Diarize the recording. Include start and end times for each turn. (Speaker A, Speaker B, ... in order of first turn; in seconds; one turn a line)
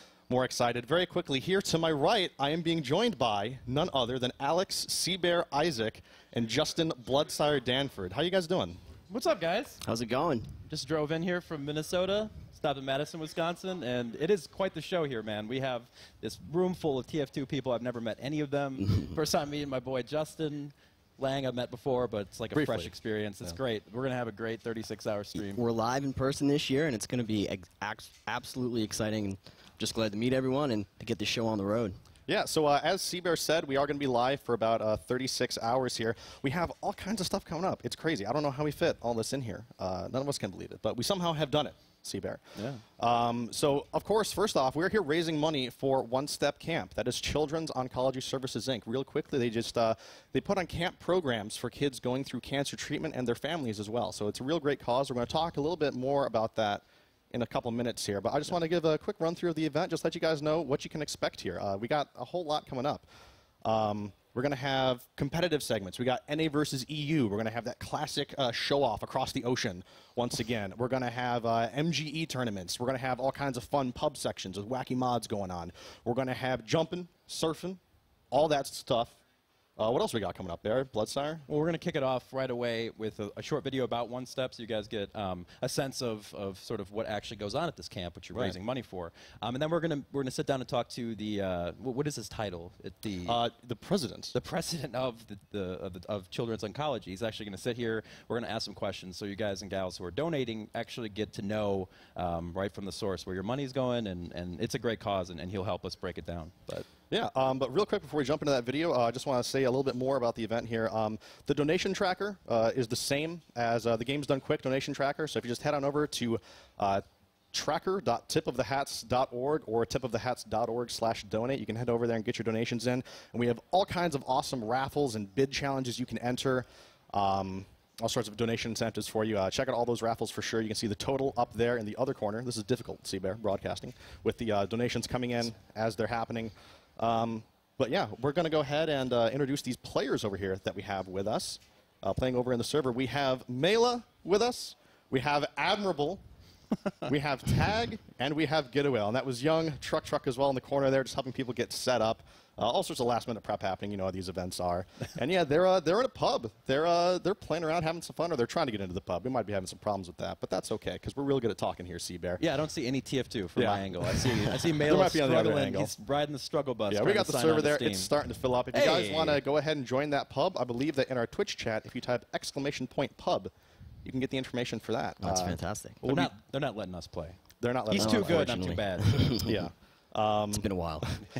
Speaker A: 0.3-8.8
Speaker B: 9.1-9.8
Speaker C: 9.8-10.6
Speaker B: 10.7-25.6
Speaker C: 18.8-19.2
Speaker A: 22.6-22.9
Speaker C: 25.4-32.0
Speaker A: 32.3-63.1
Speaker A: 63.6-77.8
Speaker A: 78.3-79.2
Speaker A: 79.8-81.5
Speaker B: 81.5-93.4
Speaker A: 93.2-94.3
Speaker B: 94.3-106.9
Speaker A: 107.1-146.2
Speaker A: 147.1-162.4
Speaker B: 162.4-168.1
Speaker A: 163.6-165.9
Speaker A: 166.9-173.5
Speaker B: 168.7-169.4
Speaker A: 174.1-176.3
Speaker C: 175.2-176.0
Speaker B: 176.0-177.4
Speaker A: 177.6-178.4
Speaker B: 177.9-179.6
Speaker C: 177.9-179.7
Speaker A: 180.1-180.7
Speaker C: 180.5-181.1